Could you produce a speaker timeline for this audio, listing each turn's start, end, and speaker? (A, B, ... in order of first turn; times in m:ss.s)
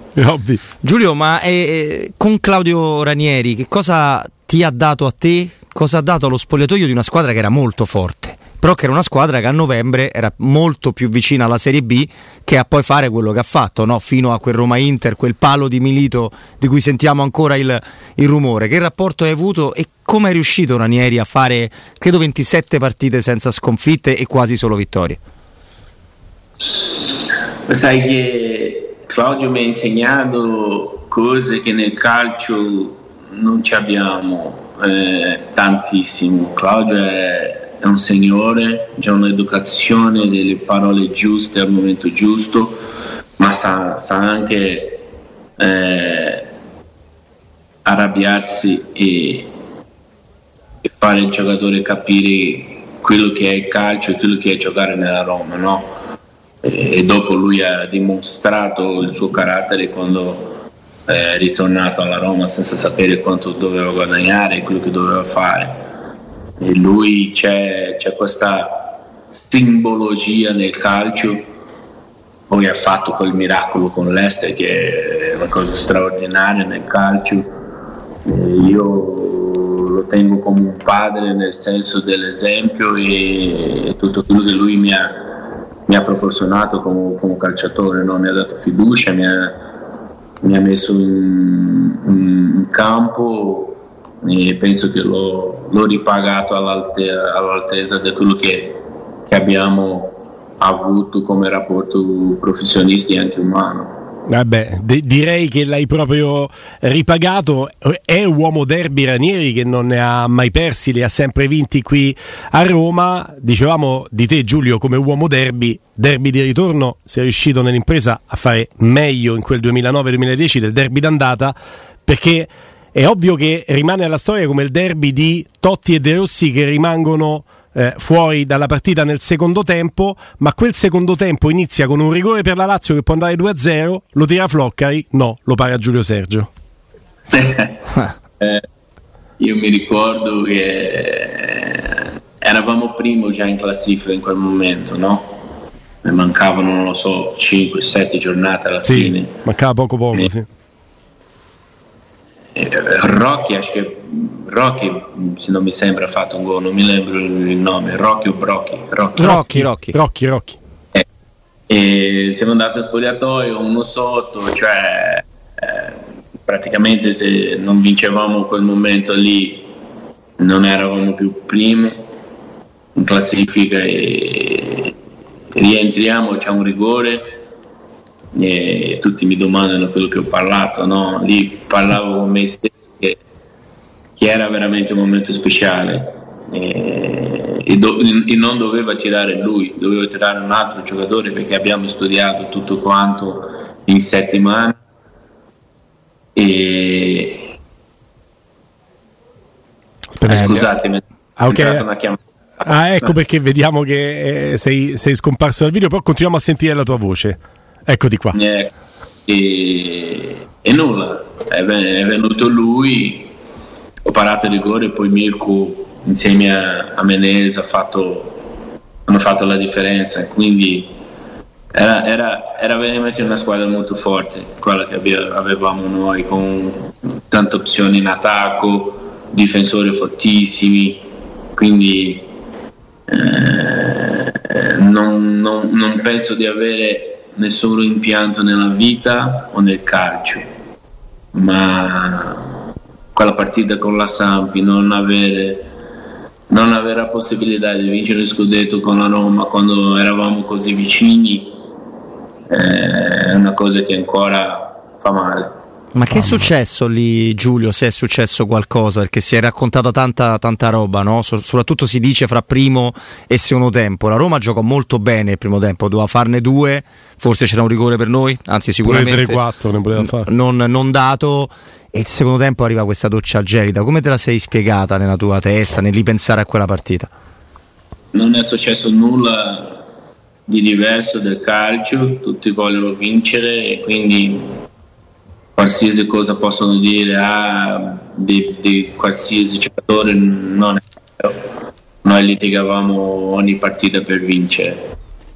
0:00.2-0:00.6 A
0:00.8-0:25.2 B
0:27.7-0:42.8 C
0:43.4-0:45.1 C
0:45.6-0:46.5 C
0:47.8-0:49.5 C
0:50.8-0:56.0 C
0:56.6-1:05.9 C
1:06.6-1:11.5 C
1:12.5-1:17.6 C
1:18.2-1:29.6 C
1:30.4-1:44.0 C
1:44.3-2:01.6 A
2:02.1-2:16.5 A
2:17.3-2:17.8 C
2:18.4-2:18.6 C
2:19.4-2:25.4 C
2:26.0-2:29.4 C
2:28.8-2:30.5 A
2:32.6-2:39.4 C
2:39.2-2:40.0 B
2:39.2-2:40.6 A
2:41.7-2:49.7 C
2:50.4-2:52.1 C
2:53.0-2:54.9 C
2:55.5-2:57.4 C
2:58.3-3:03.2 C
3:04.2-3:14.8 C
3:16.4-3:17.5 C
3:20.1-3:20.7 A
3:20.2-3:23.1 C
3:20.3-3:20.6 B
3:21.4-3:21.8 A
3:22.6-3:28.4 A
3:28.3-3:28.7 C
3:29.3-3:33.3 C
3:34.0-3:38.5 C
3:39.1-3:41.0 C
3:41.7-3:52.3 C
3:53.1-4:00.4 C
4:01.3-4:02.5 C
4:03.1-4:05.7 C
4:06.5-4:11.6 C
4:12.5-4:15.6 C
4:16.0-4:29.4 B
4:16.2-4:16.5 A
4:28.8-4:30.3 A
4:30.0-4:37.1 B
4:38.1-4:39.8 C
4:40.5-4:44.6 C
4:45.6-4:51.5 C
4:52.0-4:54.9 C